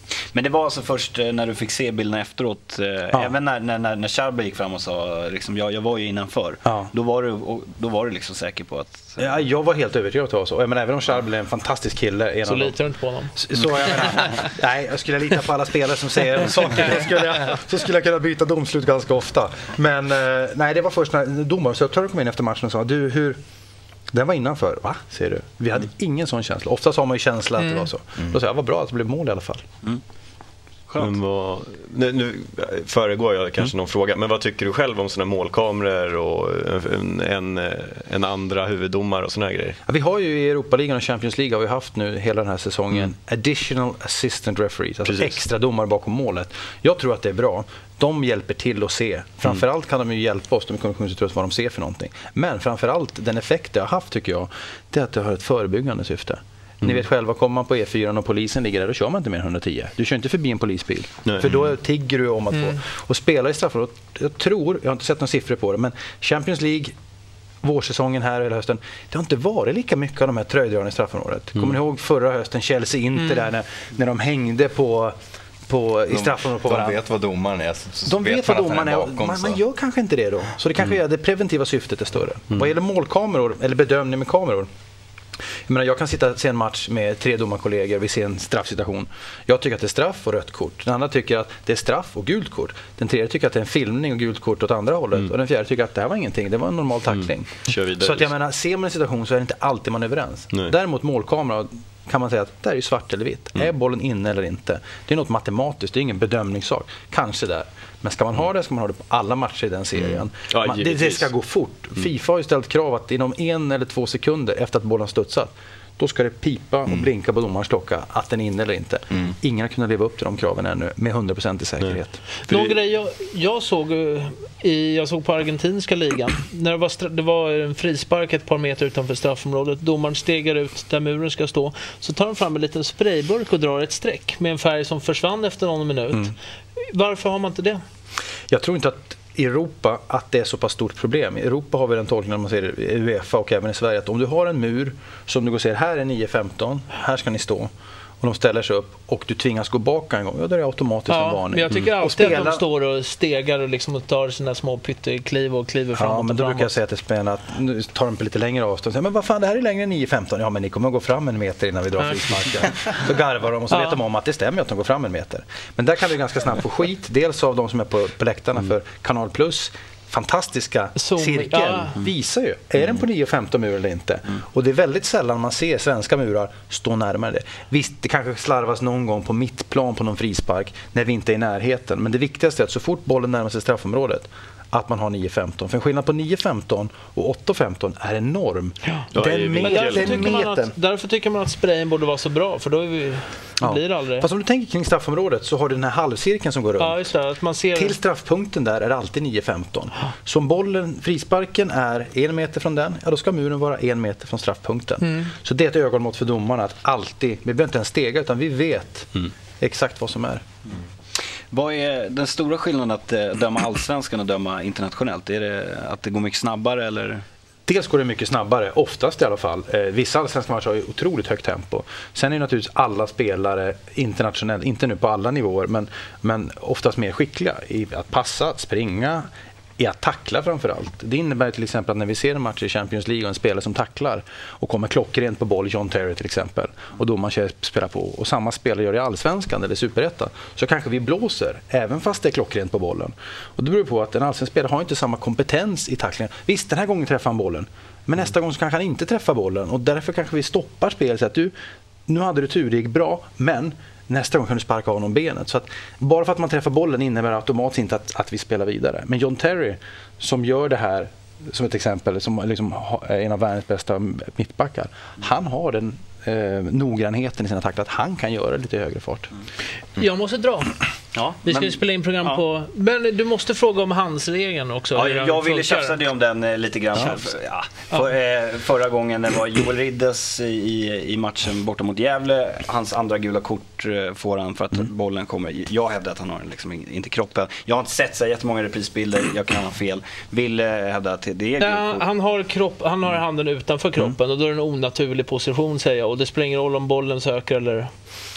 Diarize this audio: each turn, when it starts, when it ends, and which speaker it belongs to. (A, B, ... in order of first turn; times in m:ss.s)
0:00.3-0:09.2 A
0:06.6-0:06.9 B
0:09.2-0:12.8 B
0:12.4-0:14.2 C
0:13.3-0:23.4 B
0:24.1-0:29.6 B
0:27.6-0:27.9 C
0:30.9-0:31.1 A
0:31.0-0:39.8 D
0:39.9-1:06.9 B
0:45.0-0:45.4 D
1:01.3-1:01.7 D
1:07.6-1:17.0 B
1:16.1-1:19.6 E
1:18.1-1:24.7 B
1:25.7-2:02.2 B
1:37.1-1:38.3 D
1:50.0-1:51.3 D
2:01.8-2:02.8 D
2:02.5-2:17.8 C
2:18.5-2:27.7 B
2:28.2-2:32.6 B
2:31.1-2:36.7 C
2:36.0-3:10.8 B
2:42.0-2:42.9 C
2:43.7-2:44.0 C
2:51.0-2:52.0 C
3:09.1-3:10.2 D
3:09.6-3:14.3 C
3:13.6-3:17.1 B
3:16.8-3:18.0 C
3:17.7-3:30.4 B
3:25.0-3:25.3 C
3:31.5-3:37.2 A
3:37.7-4:11.5 B
4:12.1-4:29.3 B
4:30.0-4:30.8 C
4:31.1-4:32.4 A
4:31.4-4:36.0 C
4:34.9-4:52.1 A
4:51.6-4:57.9 C